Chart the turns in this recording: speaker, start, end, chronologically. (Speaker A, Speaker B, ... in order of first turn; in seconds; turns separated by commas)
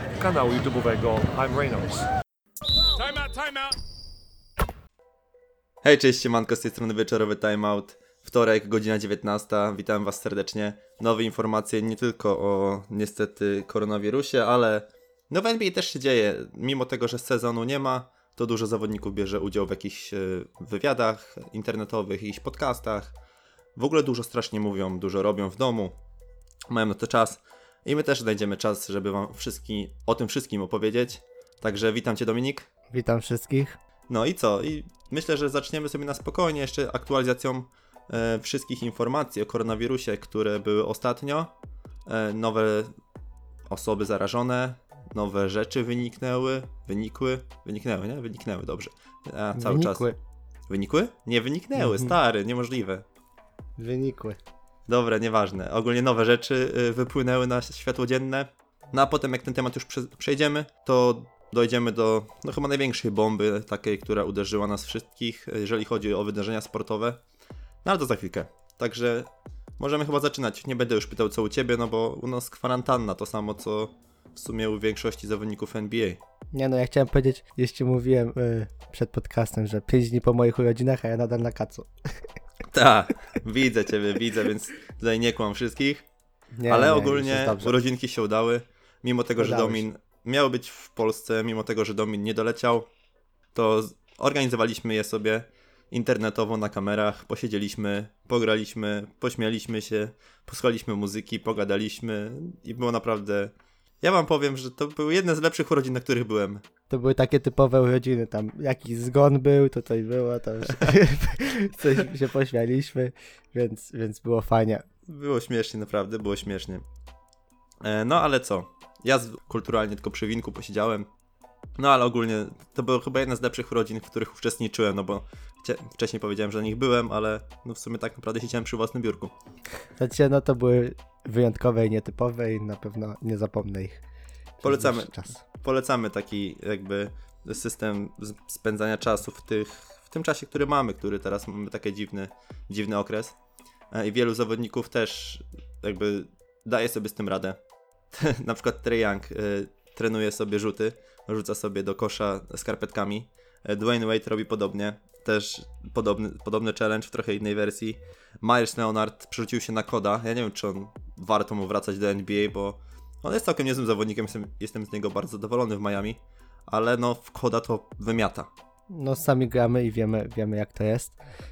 Speaker A: 0.1-2.1, Speaker A: 2.9-3.7, Speaker B: 5.8-23.1, Speaker B: 23.8-25.9, Speaker B: 26.7-32.7, Speaker C: 32.9-33.8, Speaker B: 34.1-41.5, Speaker B: 42.0-42.9, Speaker B: 43.7-50.0, Speaker C: 49.5-50.2, Speaker B: 50.7-53.0, Speaker C: 51.8-52.1, Speaker C: 53.8-54.4, Speaker B: 54.9-67.2, Speaker B: 67.8-76.2, Speaker C: 76.5-81.9, Speaker B: 82.7-86.0, Speaker C: 86.6-87.7, Speaker B: 86.7-92.9, Speaker C: 89.4-89.8, Speaker B: 93.5-106.6, Speaker C: 106.9-114.8, Speaker B: 115.0-116.8, Speaker B: 117.8-121.1, Speaker B: 121.8-129.3, Speaker C: 130.0-134.0, Speaker C: 134.6-135.4, Speaker B: 134.6-143.3, Speaker B: 143.9-147.6, Speaker B: 148.1-168.5, Speaker C: 168.9-171.2